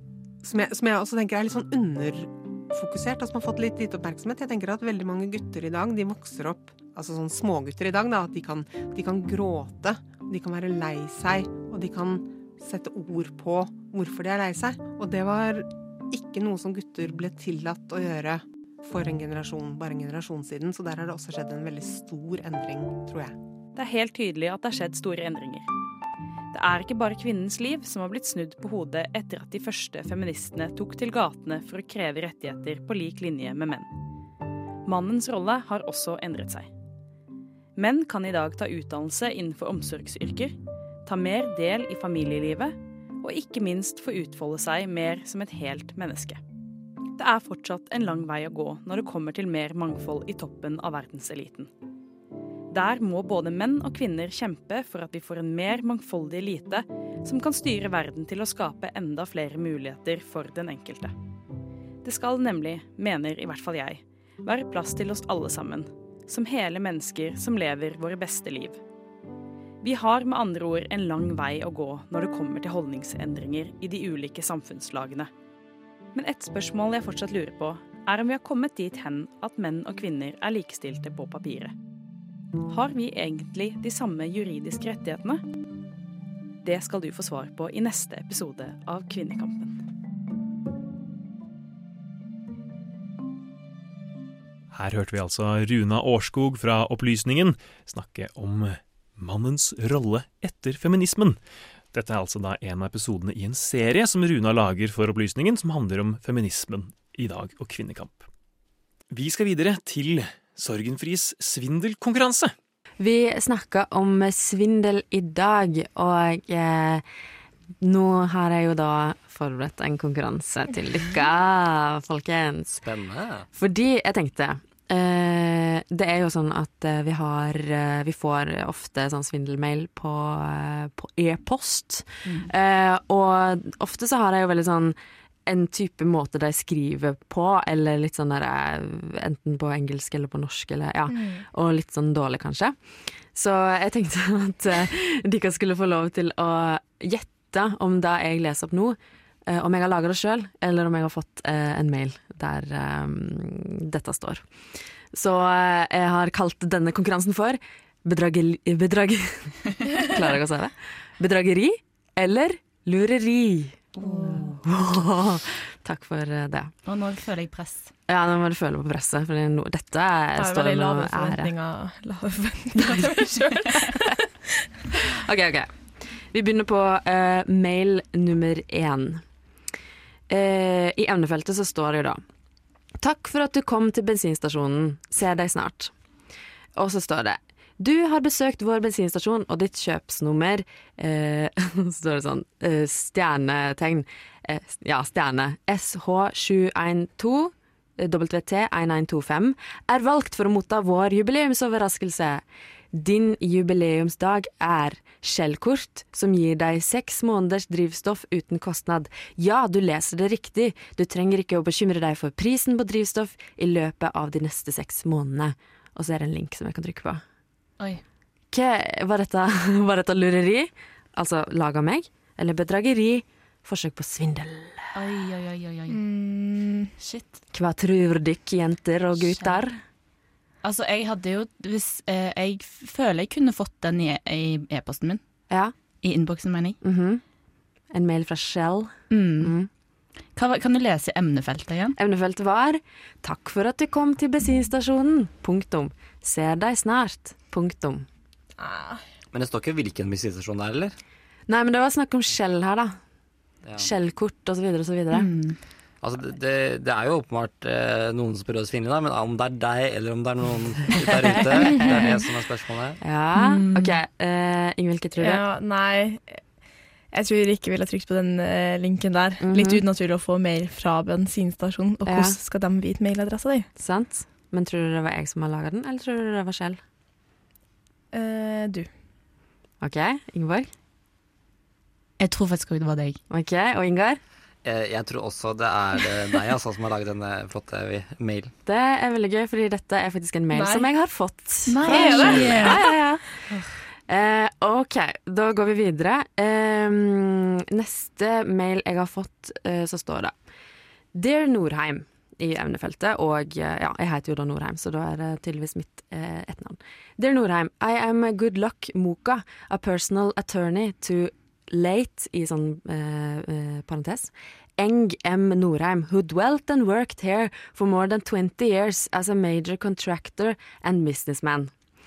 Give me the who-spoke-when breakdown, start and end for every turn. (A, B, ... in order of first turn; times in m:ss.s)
0:00.4-0:23.4 A
0:23.8-0:25.7 B
0:26.5-0:33.9 B
0:34.9-0:36.7 B
0:37.8-0:46.4 B
0:47.2-0:51.7 B
0:52.7-1:01.1 B
1:02.0-1:08.8 B
1:09.8-1:15.3 B
1:16.1-1:21.8 B
1:22.7-1:25.4 B
1:26.6-1:29.8 B
1:34.7-1:41.4 C
1:41.9-1:48.3 C
1:49.1-1:52.5 C
1:53.0-1:57.0 D
1:57.8-2:02.8 D
2:02.7-2:03.5 E
2:03.5-2:46.7 D
2:21.1-2:21.4 F
2:44.0-2:44.5 F
2:44.0-2:44.5 G
2:46.8-2:47.9 G
2:48.1-2:51.5 D
2:50.4-2:54.0 F
2:52.8-2:53.1 D
2:55.2-2:59.2 D
3:00.3-3:02.2 D
3:03.0-3:05.9 D
3:06.8-3:37.2 D
3:38.5-3:44.9 D
3:44.9-3:46.0 G
3:45.9-3:46.9 F
3:47.0-3:47.4 G
3:47.5-3:49.8 D
3:49.2-3:49.6 G
3:50.6-3:55.2 G
3:55.5-3:55.8 D
3:55.9-3:56.8 G
3:56.8-3:57.2 D
3:57.9-3:59.7 D
3:59.1-3:59.6 G
4:00.3-4:02.0 G
4:02.0-4:08.1 D
4:08.6-4:09.0 F
4:09.3-4:11.0 E
4:11.5-4:13.0 D
4:13.6-4:13.9 E
4:13.8-4:15.3 D
4:15.1-4:15.6 G
4:16.0-4:23.0 E
4:21.4-4:22.0 D
4:23.0-4:25.4 D
4:23.4-4:24.0 G
4:25.2-4:26.5 F
4:27.1-4:33.7 F
4:29.4-4:29.8 D
4:32.0-4:32.4 D
4:33.8-4:36.8 D
4:38.1-4:38.9 F
4:39.8-4:40.7 D
4:42.2-4:43.2 G
4:43.3-4:44.2 D
4:44.6-4:48.5 E
4:48.6-4:53.5 D
4:50.5-4:50.9 F
4:51.6-4:53.6 G
4:51.8-4:53.2 F
4:54.1-5:00.4 D
5:01.1-5:21.8 D